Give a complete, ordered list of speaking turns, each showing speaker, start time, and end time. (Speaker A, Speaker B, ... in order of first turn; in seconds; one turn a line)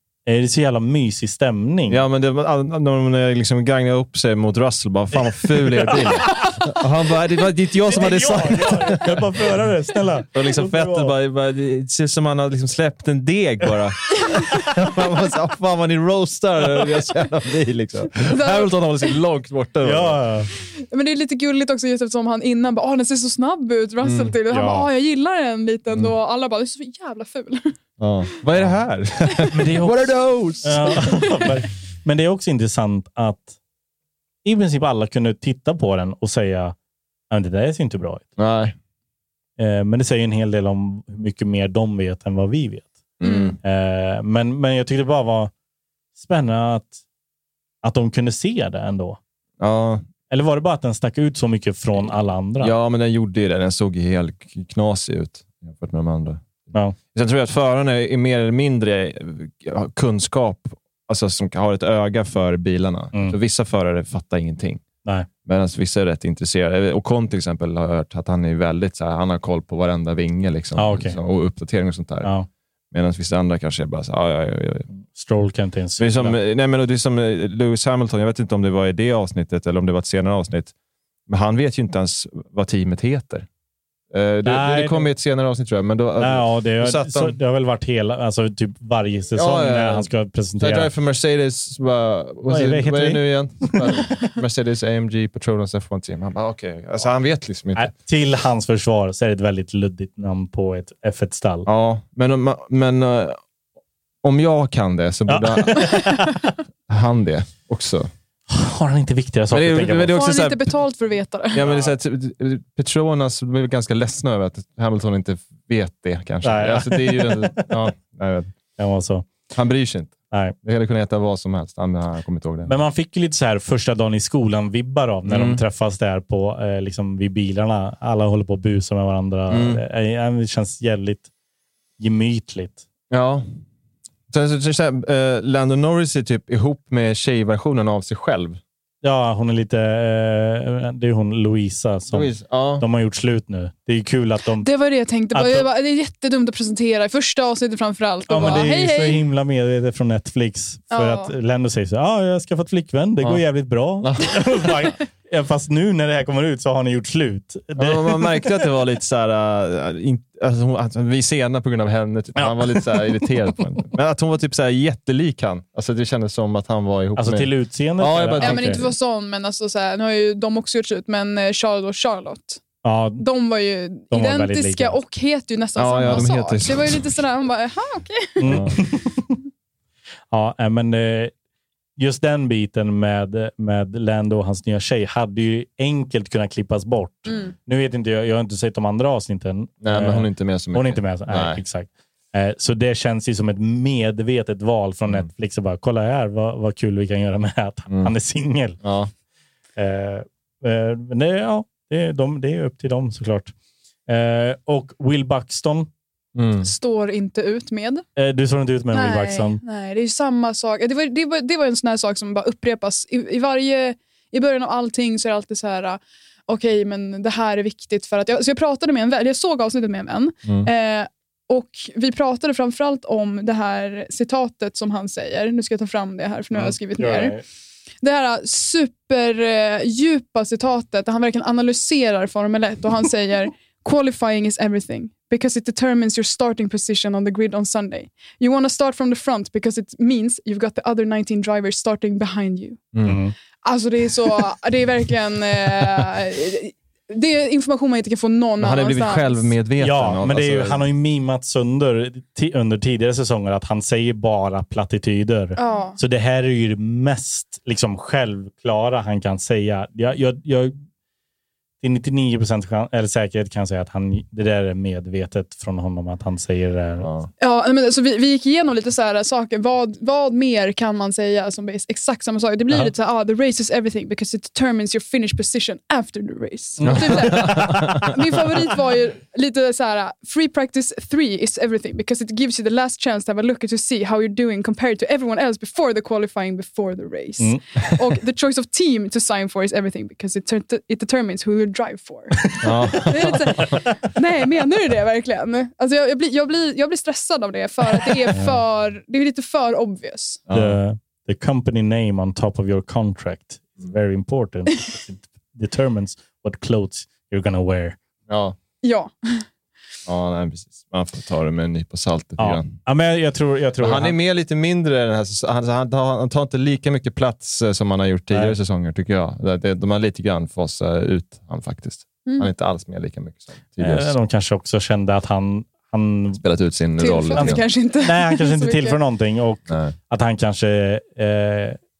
Speaker A: 0.2-2.0
Speaker B: 1.9-9.2
Speaker A: 5.2-6.6
Speaker A: 7.8-11.1
Speaker B: 10.3-20.2
Speaker C: 18.3-18.9
Speaker A: 19.8-20.5
Speaker C: 20.8-27.8
Speaker B: 24.0-24.3
Speaker A: 24.5-24.9
Speaker B: 28.0-31.5
Speaker A: 29.5-33.5
Speaker C: 30.9-31.4
Speaker A: 34.4-36.7
Speaker A: 37.3-38.2
Speaker B: 38.4-38.7
Speaker A: 39.6-42.9
Speaker B: 43.2-43.6
Speaker C: 43.2-43.6
Speaker A: 43.6-45.5
Speaker A: 46.2-47.0
Speaker A: 47.8-49.2
Speaker B: 49.6-50.0
Speaker A: 50.3-52.7
Speaker B: 52.0-64.8
Speaker B: 65.4-72.3
Speaker A: 70.7-71.2
Speaker B: 72.9-74.9
Speaker A: 74.9-76.4
Speaker B: 76.0-80.7
Speaker B: 81.3-83.5
Speaker B: 84.1-87.3
Speaker A: 84.4-85.1
Speaker A: 86.2-90.9
Speaker B: 89.3-97.9
Speaker A: 92.5-93.8
Speaker A: 97.7-101.7
Speaker B: 101.7-103.4
Speaker B: 104.2-106.2
Speaker A: 105.2-106.5
Speaker B: 106.9-108.1
Speaker A: 108.5-110.2
Speaker B: 109.5-110.6
Speaker C: 110.1-111.6
Speaker B: 111.5-118.5
Speaker A: 111.7-111.9
Speaker A: 116.4-117.7
Speaker A: 118.8-119.3
Speaker B: 119.5-122.7
Speaker A: 120.3-120.5
Speaker A: 122.6-131.3
Speaker B: 125.2-125.6
Speaker B: 129.5-129.8
Speaker A: 132.0-132.8
Speaker B: 133.1-133.4
Speaker B: 134.3-138.6
Speaker A: 139.0-144.7
Speaker B: 142.1-142.8
Speaker C: 144.5-149.2
Speaker A: 145.3-145.7
Speaker A: 148.3-158.6
Speaker C: 150.9-151.3
Speaker B: 154.0-154.9
Speaker B: 157.8-168.9
Speaker A: 162.3-163.6
Speaker A: 167.2-168.8
Speaker C: 168.4-172.6
Speaker A: 172.8-173.2
Speaker C: 173.2-178.7
Speaker A: 174.1-175.0
Speaker B: 175.8-177.2
Speaker A: 178.4-179.3
Speaker B: 178.4-178.7
Speaker A: 180.3-181.3
Speaker A: 182.0-198.8
Speaker B: 189.8-191.6
Speaker B: 198.8-199.1
Speaker A: 199.8-203.5
Speaker A: 204.1-205.9
Speaker B: 206.3-206.7
Speaker C: 206.6-208.0
Speaker A: 208.2-209.6
Speaker C: 208.9-227.4
Speaker A: 226.5-227.4
Speaker C: 228.0-242.9
Speaker B: 242.9-243.2
Speaker A: 243.0-243.3
Speaker C: 243.6-249.5
Speaker B: 248.6-250.9
Speaker A: 249.8-260.7
Speaker C: 255.6-256.0
Speaker A: 261.8-267.1
Speaker B: 267.0-267.3
Speaker C: 267.4-300.4
Speaker A: 276.8-278.1
Speaker B: 276.9-277.8
Speaker B: 292.6-293.8
Speaker B: 300.5-300.8
Speaker A: 300.5-308.0
Speaker B: 308.3-308.6
Speaker C: 308.8-309.5
Speaker B: 310.1-312.7
Speaker A: 312.4-314.2
Speaker B: 313.8-324.1
Speaker A: 323.8-326.4
Speaker B: 326.4-327.6
Speaker C: 327.0-329.0
Speaker A: 327.3-331.8
Speaker B: 329.7-329.9